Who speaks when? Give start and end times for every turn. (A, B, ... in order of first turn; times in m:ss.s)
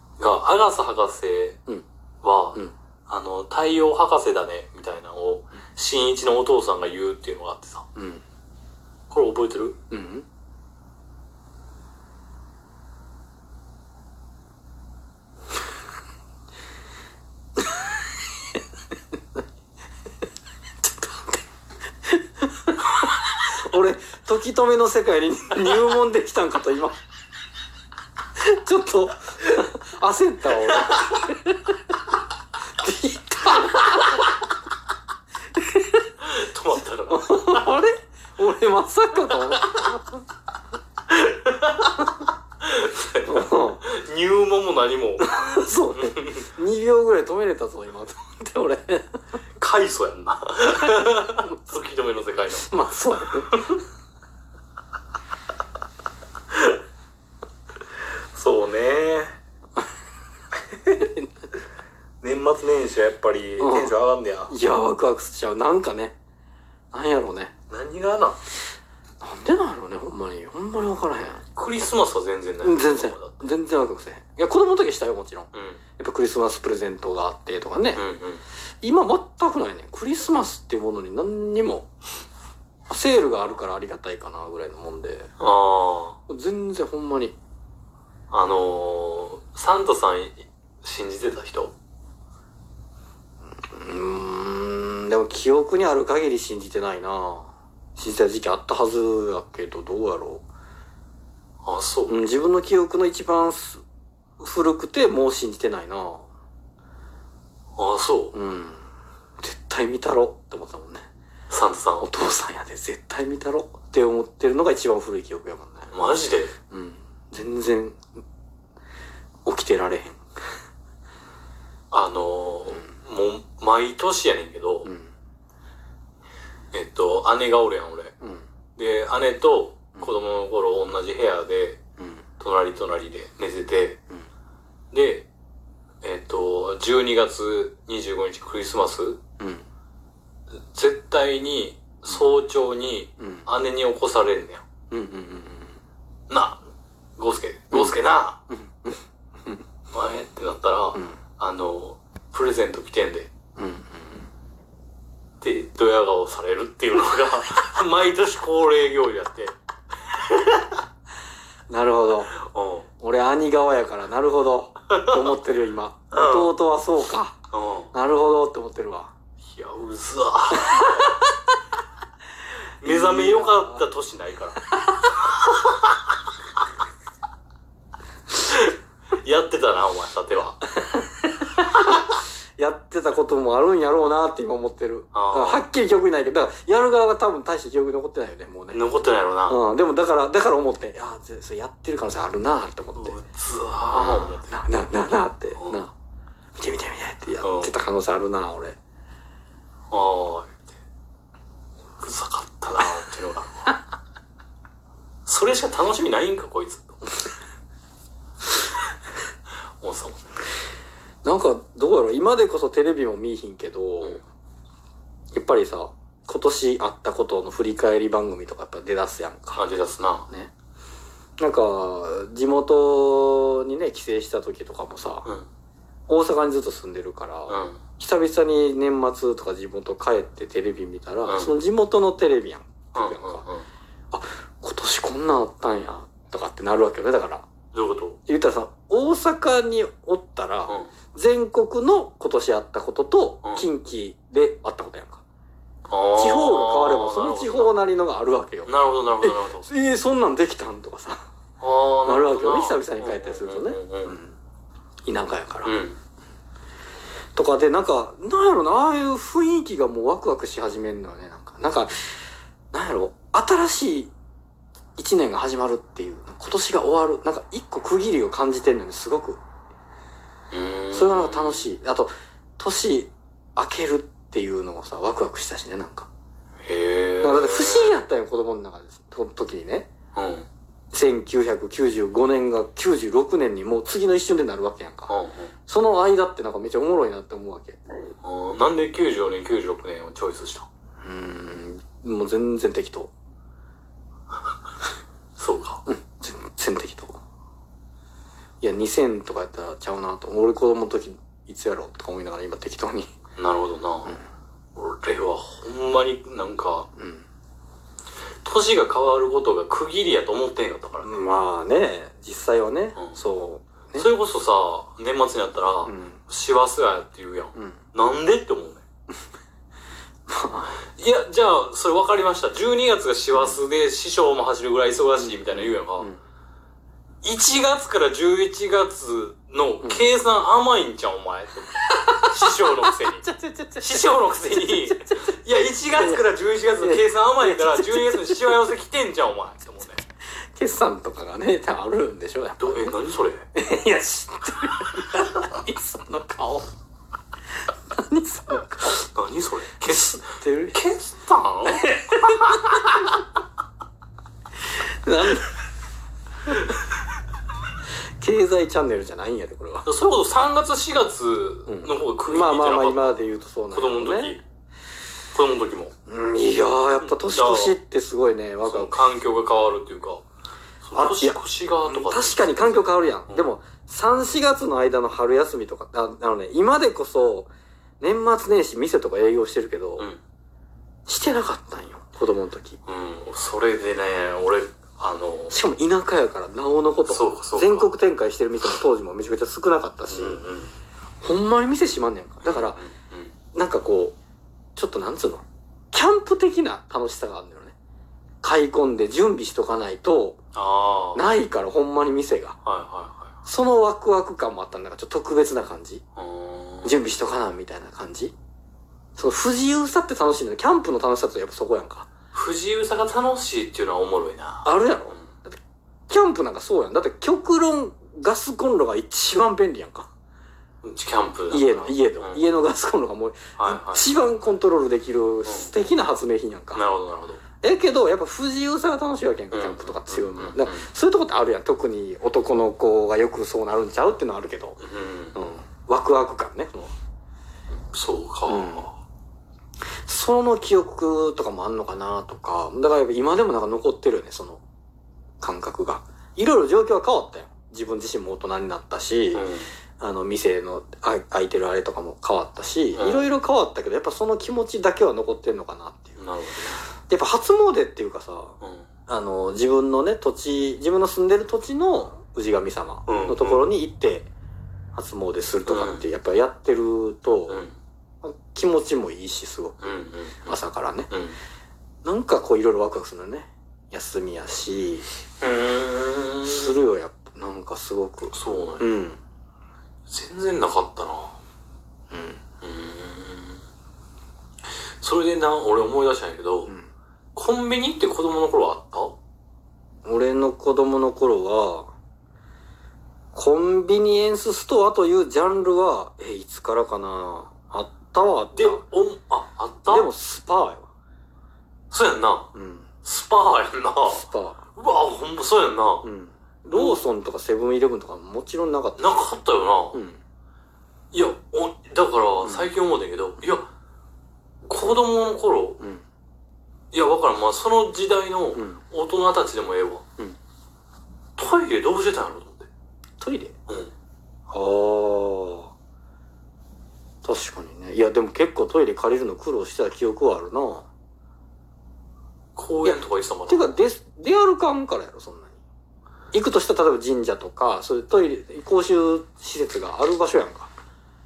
0:00.2-0:01.6 A
0:02.2-0:07.9 A
0:08.0-0:08.2 B
0:09.1-0:09.8 A
0:09.9-0:10.2 B
0:22.1-0:27.0 B
0:28.4-0:31.8 B
0:30.8-0:31.0 A
0:32.8-0:34.3 B
0:35.5-0:36.0 B
0:36.2-0:37.7 A
0:37.1-0:40.2 B
0:41.1-0:46.4 A
0:43.2-0:43.8 B
0:45.2-0:49.2 B
0:49.6-0:52.7 A
0:52.6-0:53.6 B
0:53.5-0:53.8 A
0:56.5-0:56.8 A
0:58.3-0:59.4 A
1:02.2-1:04.5 A
1:03.6-1:04.0 B
1:04.5-1:06.2 B
1:06.9-1:07.5 B
1:07.7-1:08.4 A
1:09.2-1:11.4 B
1:11.5-1:13.4 A
1:12.6-1:18.0 B
1:15.5-1:15.8 A
1:17.9-1:18.4 A
1:18.8-1:21.9 B
1:22.9-1:25.3 B
1:25.4-1:26.2 A
1:26.3-1:27.4 B
1:28.3-1:31.7 A
1:33.6-1:40.4 B
1:41.6-1:42.2 A
1:42.1-1:43.8 B
1:44.4-1:46.3 B
1:47.8-1:48.3 A
1:48.3-1:48.8 B
1:49.4-1:51.1 B
1:51.5-1:52.1 A
1:52.0-1:55.9 B
1:55.9-1:56.5 A
1:56.7-1:58.0 B
1:59.4-2:00.2 B
2:01.9-2:04.9 A
2:04.8-2:05.1 B
2:06.7-2:08.1 A
2:08.8-2:11.8 A
2:12.0-2:12.2 B
2:12.4-2:14.0 A
2:14.9-2:15.3 A
2:16.0-2:19.2 A
2:19.4-2:19.6 B
2:20.7-2:24.6 A
2:23.2-2:23.5 B
2:24.9-2:25.7 B
2:26.3-2:26.6 A
2:27.2-2:28.4 A
2:27.7-2:28.0 B
2:28.5-2:29.6 B
2:29.9-2:33.3 A
2:33.6-2:34.3 B
2:35.4-2:39.5 A
2:40.1-2:40.7 A
2:41.7-2:42.3 B
2:42.4-2:42.9 A
2:43.0-2:47.3 B
2:44.9-2:45.2 A
2:46.1-2:46.5 A
2:47.5-2:47.9 A
2:47.9-2:49.1 B
2:49.4-2:51.0 A
2:50.6-2:51.2 B
2:52.8-2:55.9 A
2:52.8-2:53.8 B
2:58.3-3:00.7 A
3:00.8-3:02.0 B
3:02.6-3:08.8 B
3:05.1-3:05.7 A
3:08.7-3:09.6 A
3:09.5-3:13.2 B
3:13.0-3:14.6 A
3:13.9-3:15.9 B
3:16.6-3:18.8 B
3:17.4-3:17.7 A
3:19.9-3:20.7 A
3:22.0-3:23.8 A
3:25.2-3:27.0 A
3:29.8-3:30.3 A
3:31.2-3:34.2 B
3:35.3-3:39.6 B
3:39.6-3:40.3 A
3:41.4-3:45.3 B
3:46.1-3:53.4 B
3:47.5-3:47.8 A
3:51.2-3:51.5 A
3:52.9-3:53.6 A
3:54.1-3:57.4 B
3:57.7-3:58.2 A
3:58.3-4:05.2 B
4:00.7-4:00.9 A
4:05.9-4:07.7 A
4:06.2-4:11.2 B
4:08.6-4:09.7 A
4:11.6-4:14.2 A
4:12.0-4:14.3 B
4:15.0-4:15.7 B
4:15.6-4:16.0 A
4:17.4-4:22.1 B
4:22.7-4:24.1 B
4:25.0-4:29.4 B
4:30.5-4:31.7 A
4:30.9-4:36.1 B
4:36.6-4:38.0 A
4:37.2-4:39.9 B
4:40.1-4:40.5 A
4:40.9-4:45.1 B
4:45.1-4:45.5 A
4:45.7-4:47.8 B
4:48.2-4:50.7 A
4:51.0-4:53.1 B
4:55.4-4:55.8 A
4:55.8-4:57.2 B
4:58.6-5:03.1 B
5:03.4-5:04.2 A
5:04.7-5:06.9 A
5:07.0-5:07.2 B
5:08.4-5:11.2 A
5:11.0-5:14.1 B
5:14.0-5:18.8 A
5:15.8-5:16.2 B
5:20.3-5:20.8 B
5:20.8-5:26.1 A
5:25.1-5:26.2 B
5:27.2-5:40.0 A
5:32.0-5:34.9 B
5:35.9-5:36.2 B
5:36.8-5:38.7 B
5:40.5-5:43.0 B
5:42.6-5:43.5 A
5:43.5-5:46.7 B
5:47.9-5:49.0 B
5:48.8-5:52.5 A
5:49.9-5:50.8 B
5:51.7-5:52.9 B
5:54.7-5:55.5 B
5:58.2-5:59.9 B
5:59.8-6:03.2 A
6:01.7-6:04.4 B
6:03.7-6:04.4 A
6:05.3-6:05.9 A
6:06.1-6:09.0 B
6:06.9-6:07.8 A
6:08.6-6:10.2 A
6:10.8-6:13.5 A
6:10.9-6:20.1 B
6:21.1-6:22.8 B
6:22.8-6:25.6 A
6:25.5-6:30.4 B
6:27.0-6:27.9 A
6:30.1-6:30.7 A
6:31.2-6:32.8 B
6:32.4-6:33.3 A
6:33.5-6:34.1 B
6:34.8-6:37.7 B
6:38.4-6:40.4 B
6:40.5-6:41.2 A
6:41.1-6:42.6 B
6:42.6-6:43.3 A
6:43.4-6:46.0 B
6:46.2-6:47.0 A
6:46.8-6:48.3 B
6:49.2-6:52.1 B
6:52.3-6:55.3 A
6:54.6-6:55.6 B
6:56.1-7:00.1 B
7:00.8-7:02.4 A
7:01.5-7:06.8 B
7:03.6-7:04.1 A
7:05.4-7:05.7 A
7:06.7-7:07.4 A
7:07.6-7:14.8 B
7:09.5-7:10.9 A
7:14.8-7:15.4 A
7:15.3-7:16.9 B
7:17.9-7:18.9 A
7:18.5-7:18.9 B
7:20.0-7:24.6 B
7:25.4-7:29.4 B
7:29.3-7:29.7 A
7:30.0-7:36.2 B
7:32.9-7:33.3 A
7:36.2-7:36.8 A
7:37.1-7:38.5 B
7:38.6-7:38.9 A
7:39.1-7:44.3 B
7:43.1-7:43.6 A
7:44.9-7:47.6 B
7:45.7-7:46.0 A
7:47.5-7:47.8 A
7:48.2-7:49.9 B
7:49.8-7:50.6 A
7:50.4-7:51.1 B
7:51.1-7:51.4 A
7:52.0-7:55.0 B
7:55.4-7:56.8 A
7:56.4-7:59.2 B
7:58.3-7:58.9 A
8:00.1-8:01.4 A
8:02.1-8:02.4 B
8:02.6-8:03.6 A
8:05.0-8:06.7 A
8:07.3-8:09.2 A
8:10.0-8:11.9 B
8:13.3-8:18.8 B
8:18.5-8:20.1 A
8:19.9-8:20.9 B
8:21.9-8:22.5 A
8:22.5-8:22.9 B
8:23.0-8:26.1 A
8:24.1-8:24.6 B
8:26.0-8:29.2 B
8:26.7-8:27.0 A
8:29.0-8:30.0 A
8:29.9-8:30.2 B
8:31.1-8:33.7 A
8:32.4-8:32.7 B
8:34.6-8:35.8 A
8:36.9-8:40.0 A
8:38.5-8:38.8 B
8:41.4-8:42.7 A
8:43.2-8:43.5 B
8:43.7-8:43.9 A
8:44.5-8:45.7 B
8:47.2-8:50.9 B
8:52.6-8:53.8 A
8:52.8-8:55.5 B
8:56.3-9:00.7 B